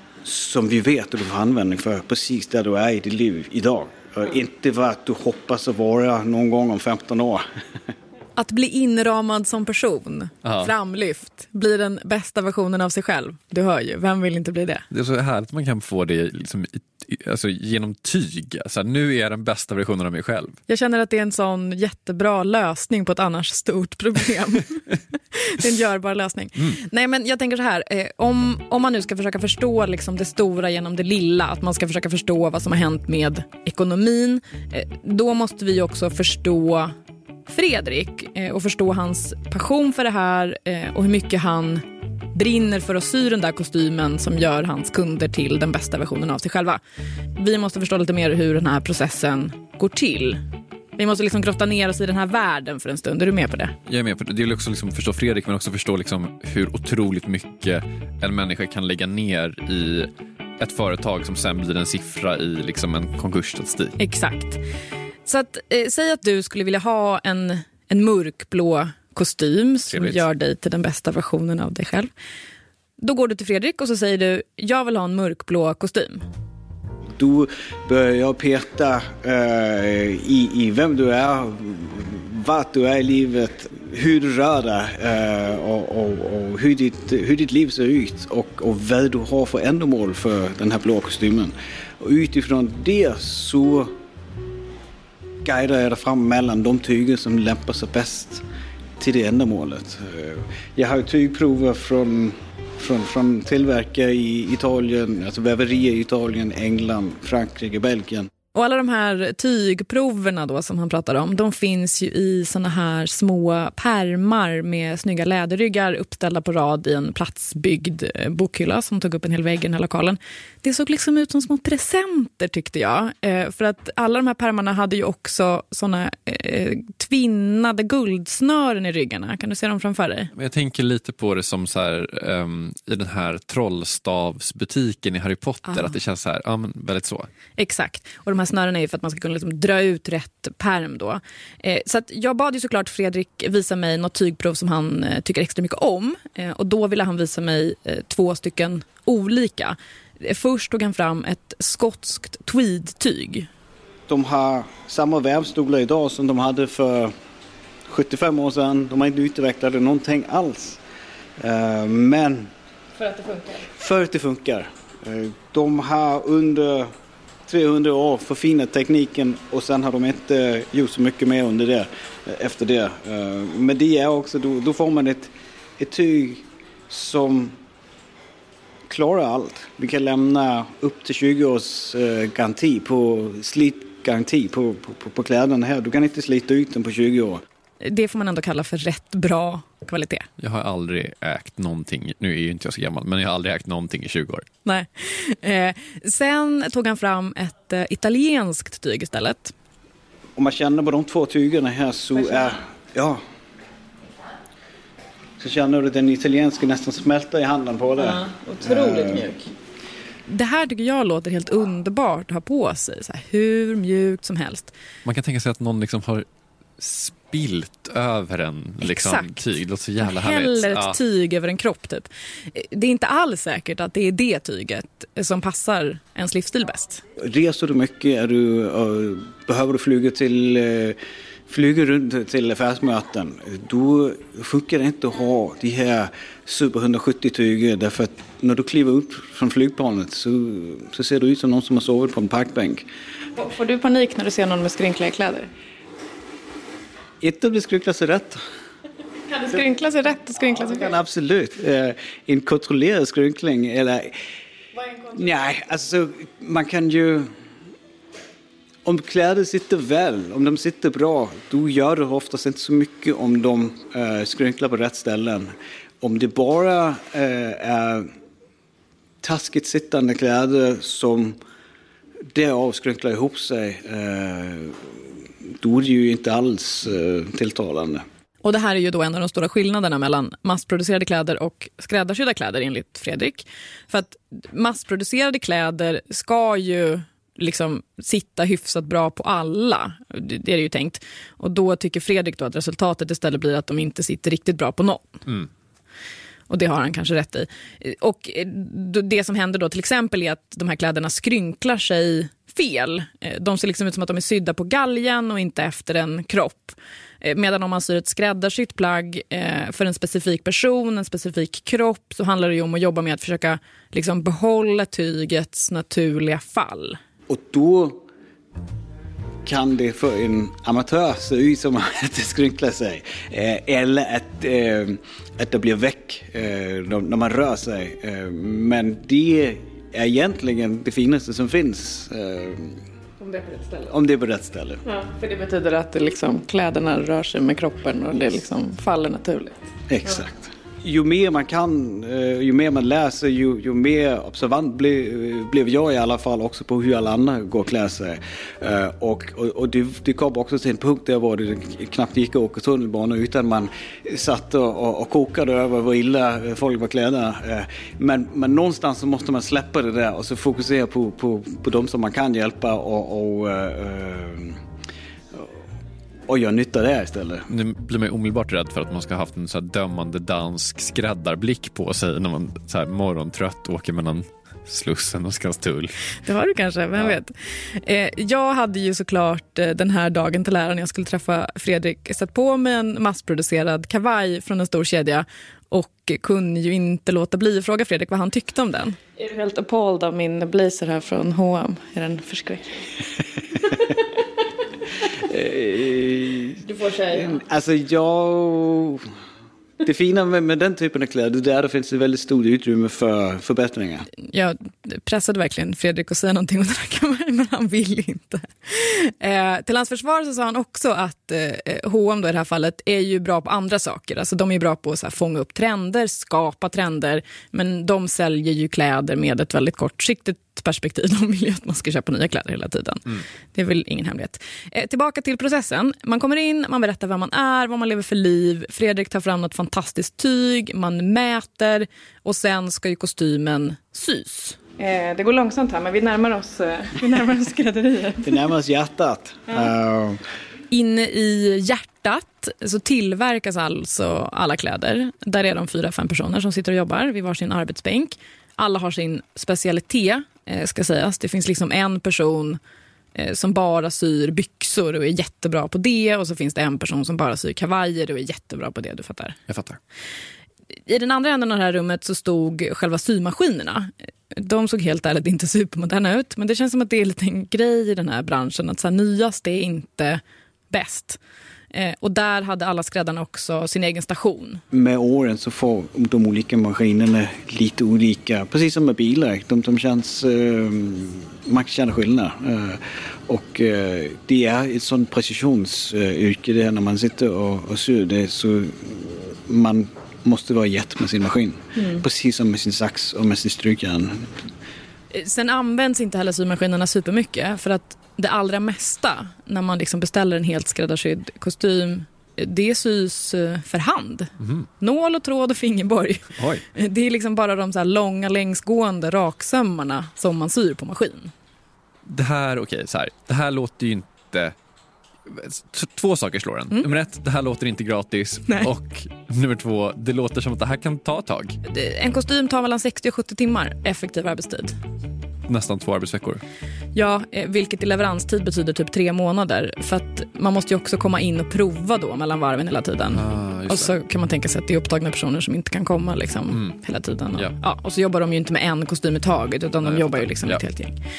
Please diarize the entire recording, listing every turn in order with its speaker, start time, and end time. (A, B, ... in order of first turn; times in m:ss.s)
0:00.2-0:07.4 A
0:08.4-0:14.8 B
0:10.4-0:10.7 C
0:14.9-0:20.6 C
0:20.7-0:36.9 B
0:37.5-0:46.8 B
0:47.4-0:50.4 B
0:51.0-0:53.7 B
0:53.9-1:04.0 C
1:04.0-1:04.6 B
1:05.3-1:12.1 B
1:09.9-1:10.2 C
1:13.0-1:16.2 B
1:17.2-1:33.9 A
1:35.4-1:38.4 A
1:39.0-1:48.3 A
1:48.5-2:10.3 B
2:10.4-2:17.3 C
2:15.7-2:16.0 B
2:17.6-2:33.5 B
2:34.1-2:37.1 A
2:37.9-2:40.8 A
2:41.4-2:42.5 A
2:43.0-2:43.7 B
2:43.7-2:46.9 A
2:47.5-2:57.6 A
2:58.9-3:07.4 A
3:07.8-3:10.3 B
3:10.4-3:14.5 C
3:14.6-3:19.5 B
3:20.4-3:23.2 A
3:22.2-3:22.5 B
3:25.4-3:29.3 A
3:28.0-3:29.5 B
3:30.3-3:34.7 B
3:35.0-3:36.3 C
3:36.8-3:41.0 C
3:38.8-3:39.4 B
3:40.0-3:47.0 B
3:47.2-3:51.0 A
3:51.5-4:02.8 A
4:03.4-4:05.5 B
4:07.2-4:08.4 A
4:09.3-4:10.9 B
4:10.6-4:14.1 A
4:14.9-4:15.3 B
4:15.1-4:17.3 A
4:18.8-4:28.1 A
4:29.2-4:31.4 A
4:32.3-4:34.8 A
4:35.6-4:38.0 A
4:38.4-4:55.2 B
4:56.5-5:17.0 B
5:17.3-5:18.0 A
5:19.4-5:32.8 A
5:33.2-5:33.9 B
5:33.9-5:34.8 A
5:34.8-5:40.1 B
5:39.9-6:04.6 A
6:06.3-6:07.5 A
6:07.5-6:16.0 C
6:16.2-6:32.9 B
6:35.1-6:36.6 A
6:36.6-6:37.4 B
6:37.1-6:39.1 A
6:39.8-6:44.1 A
6:44.2-7:18.3 B
7:18.2-7:20.2 A
7:20.7-7:32.6 B
7:33.2-7:39.4 B
7:39.5-7:39.8 C
7:40.9-7:51.2 B
7:51.7-7:54.6 B
7:54.7-8:14.3 A
8:15.1-8:31.3 B
8:24.4-8:24.7 C
8:26.4-8:26.6 C
8:32.1-8:34.6 C
8:35.3-8:41.6 C
8:41.6-8:44.8 B
8:45.5-8:46.4 C
8:47.0-9:01.0 B
8:53.1-8:53.9 C
8:56.5-8:56.8 C
8:59.8-9:00.6 C